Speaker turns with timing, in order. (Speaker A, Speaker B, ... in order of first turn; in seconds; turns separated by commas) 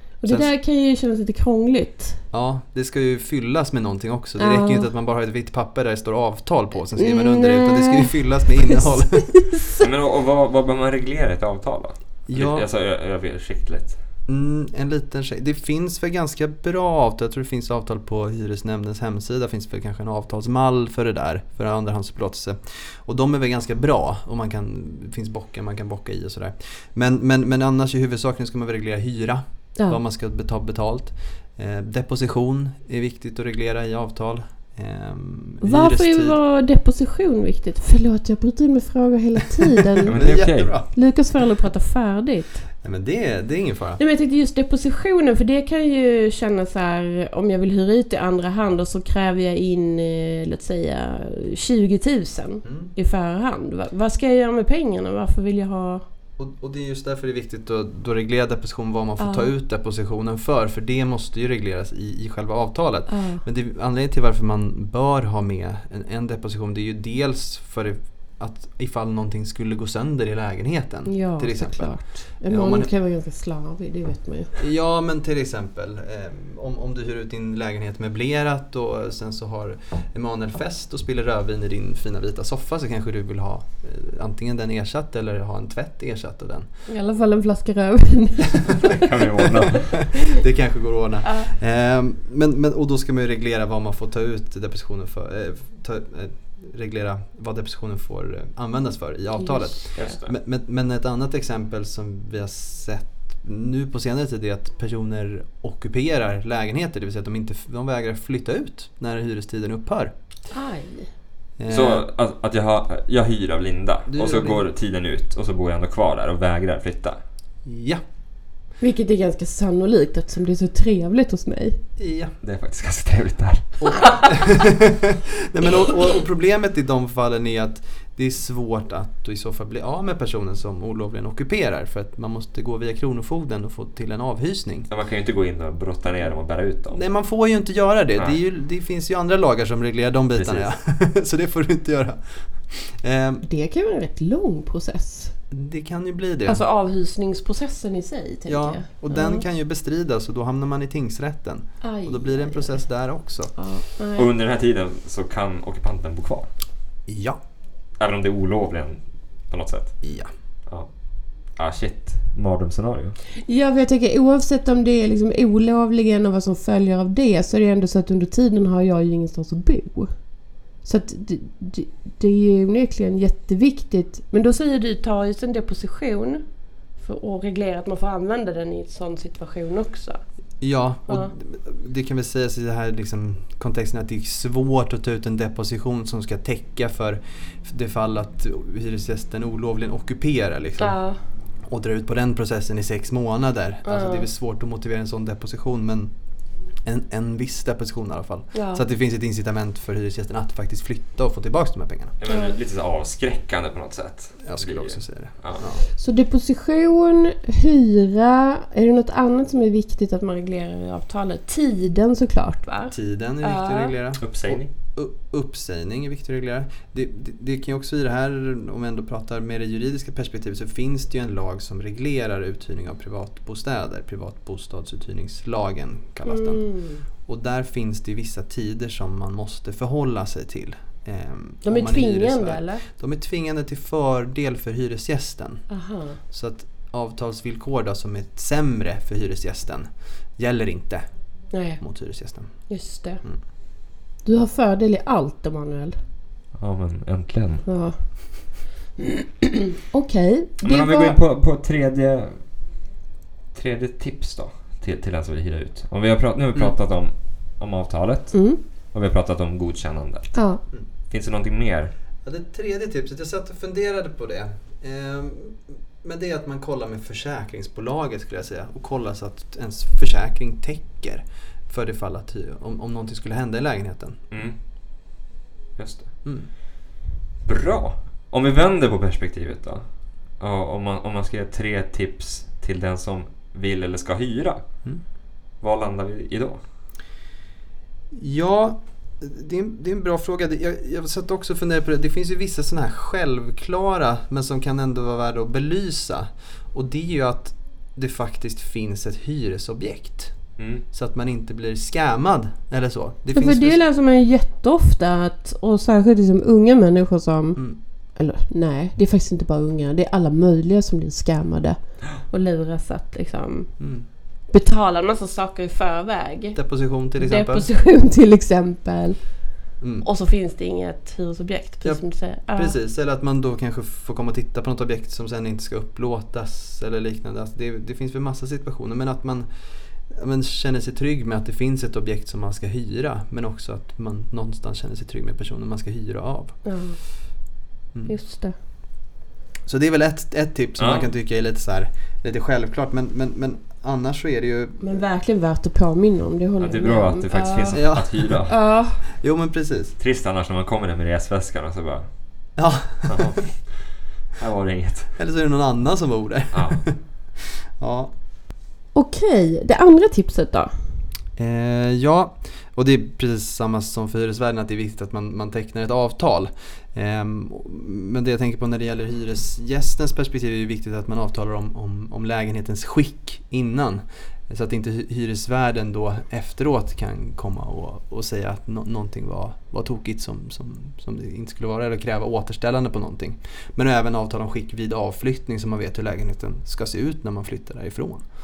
Speaker A: 0.2-2.2, Speaker B: 2.3-9.3, Speaker A: 4.4-4.9, Speaker A: 7.0-9.8, Speaker C: 9.8-14.0, Speaker B: 12.3-12.7, Speaker B: 14.3-36.4, Speaker A: 35.6-42.7, Speaker B: 40.0-41.0, Speaker C: 40.0-40.7, Speaker B: 42.8-44.0, Speaker A: 44.0-56.0, Speaker B: 52.6-52.9, Speaker B: 56.4-72.9, Speaker A: 59.2-59.5, Speaker A: 63.1-63.4, Speaker A: 71.1-74.6, Speaker B: 74.6-86.7, Speaker A: 86.9-89.0, Speaker C: 88.7-90.0, Speaker B: 89.9-110.1, Speaker A: 91.2-91.5, Speaker A: 99.4-100.1, Speaker C: 100.0-100.3, Speaker A: 110.5-111.1, Speaker B: 111.6-112.0, Speaker C: 111.7-117.2, Speaker B: 114.1-114.6, Speaker B: 117.7-118.0, Speaker A: 118.8-121.8, Speaker B: 122.0-122.3, Speaker C: 122.4-123.9, Speaker B: 123.8-134.9, Speaker A: 124.0-124.3, Speaker C: 134.9-137.0, Speaker B: 136.9-143.4, Speaker C: 140.3-140.7, Speaker A: 143.4-145.3, Speaker B: 145.5-146.6, Speaker A: 146.5-149.4, Speaker B: 148.5-153.5, Speaker A: 151.8-152.8, Speaker A: 153.6-154.3, Speaker C: 154.2-156.5, Speaker B: 157.1-157.4, Speaker C: 158.0-160.0, Speaker B: 160.0-160.3, Speaker C: 161.6-163.2, Speaker A: 163.5-170.1, Speaker A: 170.8-176.4, Speaker A: 177.0-180.2, Speaker B: 180.6-191.0, Speaker A: 190.8-191.2, Speaker B: 191.7-196.1, Speaker A: 193.8-194.3, Speaker B: 196.8-202.2, Speaker A: 198.5-198.8, Speaker C: 202.2-205.6, Speaker A: 202.3-202.6, Speaker B: 204.4-205.8, Speaker A: 205.9-214.0, Speaker B: 212.9-226.7, Speaker C: 214.2-214.7, Speaker A: 226.3-227.0, Speaker B: 227.3-235.7, Speaker A: 231.7-232.8, Speaker A: 235.7-236.2, Speaker B: 236.3-241.1, Speaker A: 241.5-241.8, Speaker B: 241.8-242.6, Speaker A: 242.7-243.2, Speaker A: 244.2-246.0, Speaker C: 246.6-247.7, Speaker A: 247.7-248.0, Speaker A: 249.0-251.2, Speaker C: 250.6-252.4, Speaker C: 253.5-258.4, Speaker A: 258.3-258.6, Speaker C: 258.9-260.3, Speaker A: 260.3-260.6, Speaker C: 261.1-261.9, Speaker B: 262.2-274.2, Speaker C: 274.3-274.6, Speaker C: 275.8-276.1, Speaker C: 277.5-279.8, Speaker C: 280.4-284.6, Speaker C: 285.6-286.6, Speaker B: 288.1-300.4, Speaker C: 300.6-300.8, Speaker B: 300.9-303.8, Speaker A: 303.3-313.7, Speaker B: 313.8-314.1, Speaker A: 314.5-316.6, Speaker B: 316.6-317.7, Speaker A: 317.2-319.2, Speaker B: 319.8-320.1, Speaker A: 320.0-322.8, Speaker B: 322.6-329.5, Speaker B: 330.1-336.6, Speaker A: 336.6-337.0, Speaker A: 338.1-338.6, Speaker B: 339.7-344.8, Speaker C: 340.8-341.1, Speaker A: 344.8-349.0, Speaker C: 346.6-348.6, Speaker B: 347.7-348.4, Speaker B: 349.1-350.0, Speaker C: 350.0-352.1, Speaker B: 352.6-353.4, Speaker C: 353.1-355.1, Speaker B: 355.2-358.1, Speaker C: 356.5-356.8, Speaker A: 358.9-360.7, Speaker B: 361.4-388.2